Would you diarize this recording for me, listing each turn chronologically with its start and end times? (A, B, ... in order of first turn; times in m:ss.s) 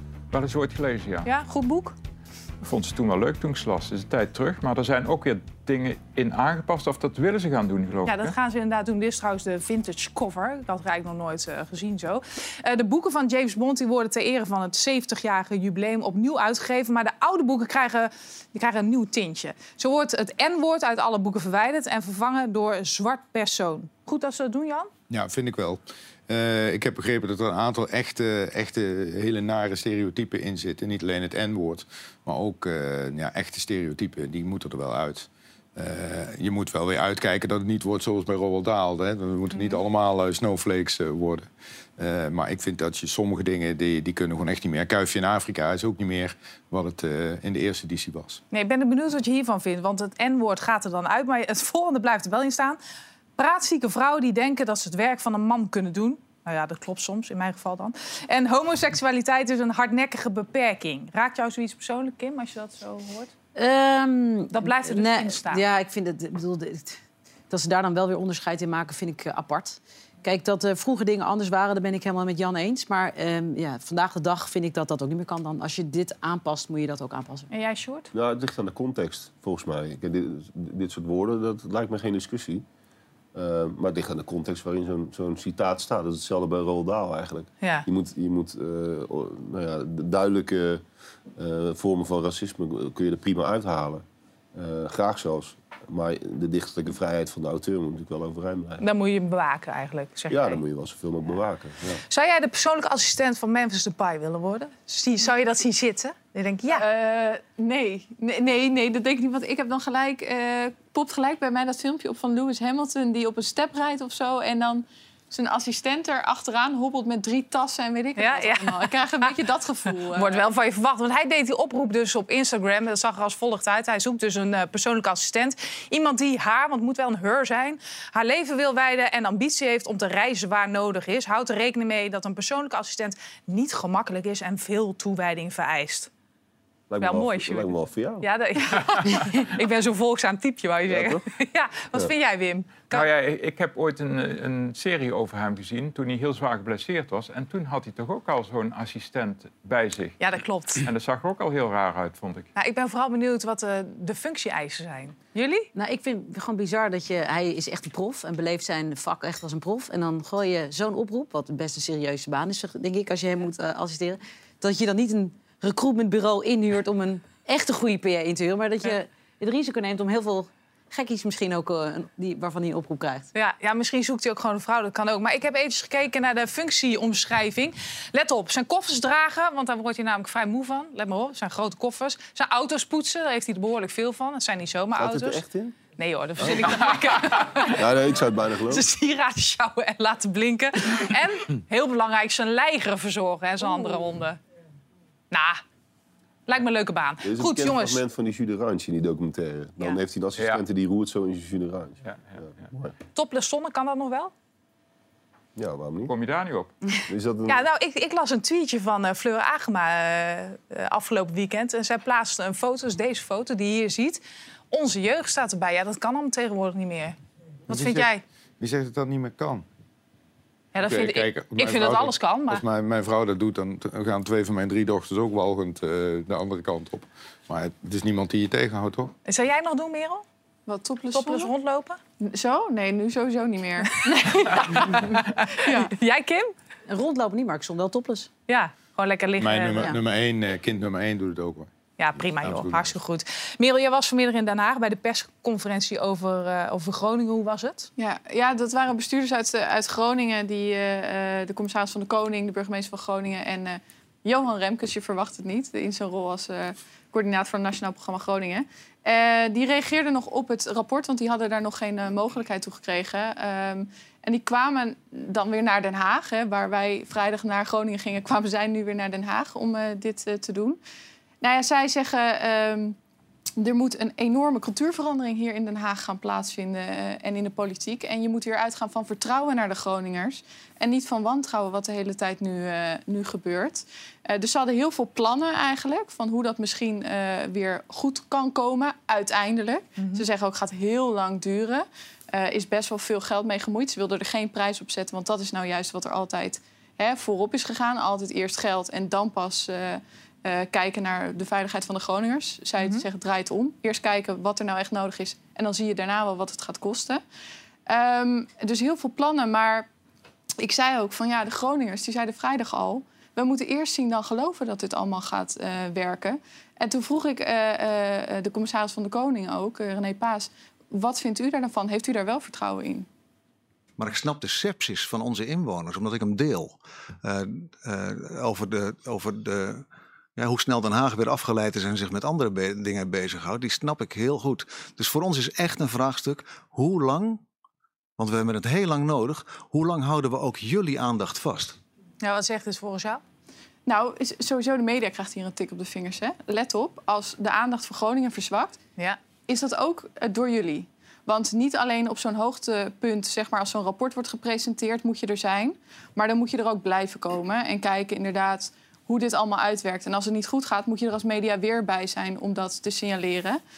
0:00.3-0:01.3 A
0:01.2-0:01.9 B
0:02.6-0:08.3 A
0:08.0-0:24.9 B
0:25.1-0:48.4 C
0:39.5-0:39.8 B
0:48.5-0:52.8 B
0:53.4-1:03.3 B
1:03.5-1:17.5 D
1:04.5-1:05.6 B
1:17.5-1:18.1 B
1:18.1-1:22.6 E
1:23.3-1:30.8 E
1:27.6-1:27.8 B
1:31.4-1:34.0 E
1:34.5-1:38.8 E
1:38.8-1:40.6 B
1:40.3-1:41.8 E
1:42.1-1:46.9 B
1:46.7-2:00.4 F
1:58.2-1:59.4 B
2:00.0-2:16.1 B
2:16.9-2:18.3 E
2:17.0-2:23.1 B
2:20.9-2:21.2 E
2:22.9-2:30.2 A
2:30.2-2:30.8 B
2:30.8-2:32.5 A
2:32.6-2:35.7 B
2:35.7-2:53.3 D
2:53.3-3:05.4 B
3:05.0-3:05.7 E
3:06.0-3:07.8 B
3:07.7-3:08.8 E
3:08.7-3:14.4 B
3:15.3-3:15.6 B
3:16.5-3:18.0 B
3:17.2-3:22.9 E
3:20.4-3:20.6 A
3:23.1-3:24.3 B
3:25.6-3:26.1 E
3:26.1-3:26.7 A
3:27.1-3:27.6 E
3:27.5-3:37.2 B
3:37.7-3:38.2 B
3:37.7-3:39.6 C
3:40.7-3:42.6 B
3:40.8-3:49.1 C
3:49.2-3:50.2 B
3:50.7-3:51.5 F
3:51.1-3:52.0 B
3:52.2-3:55.9 F
3:54.0-3:56.5 B
3:56.9-3:58.3 D
3:58.5-4:00.0 B
3:59.4-4:01.7 C
4:02.0-4:07.9 B
4:02.3-4:02.9 C
4:08.0-4:30.8 F
4:31.4-4:33.0 F
4:33.6-5:07.2 F
4:50.0-4:50.2 B
5:02.8-5:03.0 B
5:07.9-5:09.9 F
5:10.6-5:23.1 F
5:24.0-5:29.8 G
5:30.4-5:37.4 G
5:38.2-5:41.8 G
5:42.2-5:43.2 B
5:43.8-5:48.8 F
5:49.5-6:03.6 F